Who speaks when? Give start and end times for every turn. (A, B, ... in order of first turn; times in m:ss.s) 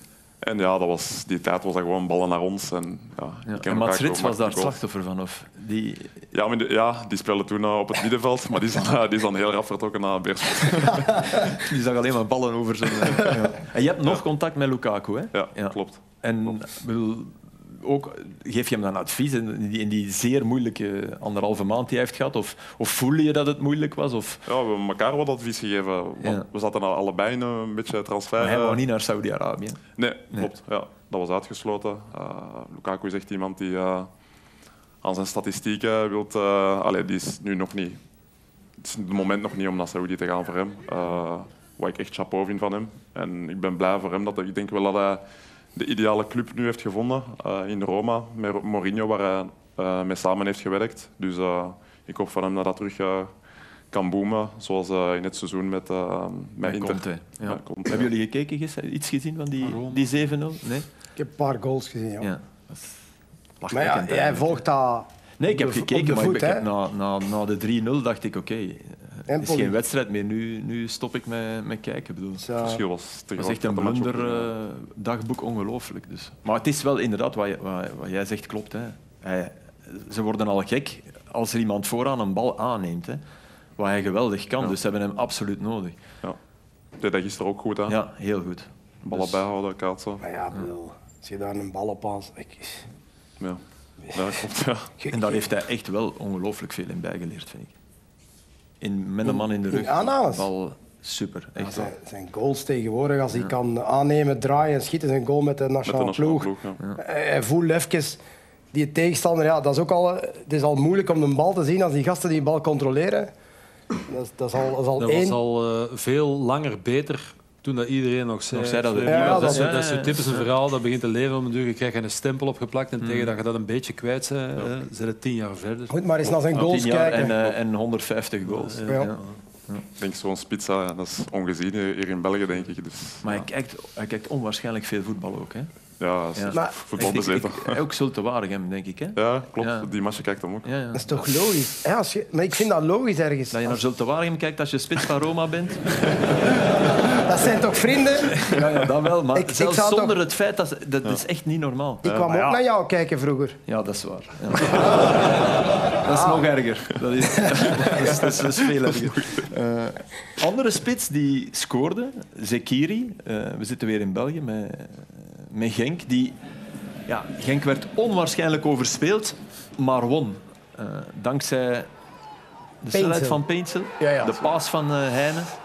0:00.4-0:04.8 A
0:03.5-0:06.2 B
0:06.3-0:11.4 A
0:11.5-0:24.4 B
0:15.3-0:16.5 A
0:24.5-0:28.8 A
0:28.4-0:30.5 B
0:30.0-0:34.1 A
0:35.0-0:38.0 A
0:38.8-0:45.2 A
0:45.7-0:53.3 A
0:53.9-0:58.1 A
0:56.6-1:00.8 B
0:59.6-1:00.1 C
1:01.2-1:02.3 D
1:02.2-1:03.0 B
1:03.6-1:04.6 B
1:03.7-1:06.6 D
1:05.4-1:12.4 B
1:09.3-1:09.7 D
1:12.4-1:12.8 D
1:12.6-1:14.5 A
1:13.4-1:23.2 B
1:23.8-1:26.0 B
1:27.0-1:28.0 A
1:27.9-1:29.4 B
1:29.0-1:30.2 A
1:30.2-1:32.8 D
1:34.1-1:34.9 A
1:35.0-1:35.4 D
1:35.1-1:37.7 B
1:38.8-1:41.9 B
1:39.2-1:40.5 D
1:41.6-1:48.2 D
1:45.8-1:46.8 A
1:48.7-1:53.3 D
1:54.1-1:55.4 D
1:55.0-2:06.0 C
1:58.5-2:00.5 B
1:59.1-1:59.6 D
2:03.0-2:03.4 B
2:05.9-2:07.4 D
2:06.5-2:09.8 B
2:08.5-2:09.3 C
2:10.0-2:13.5 A
2:13.2-2:15.7 B
2:16.0-2:17.8 A
2:16.4-2:19.9 B
2:19.1-2:20.7 A
2:20.6-2:21.0 B
2:21.0-2:23.8 D
2:23.5-2:26.2 B
2:27.2-2:28.5 D
2:28.3-2:32.0 B
2:29.3-2:30.2 D
2:32.0-2:33.6 D
2:32.0-2:32.5 A
2:33.7-2:46.4 B
2:37.4-2:38.2 D
2:38.9-2:39.4 A
2:47.1-2:51.9 B
2:52.8-2:55.5 B
2:52.9-2:53.4 D
2:54.0-2:54.5 D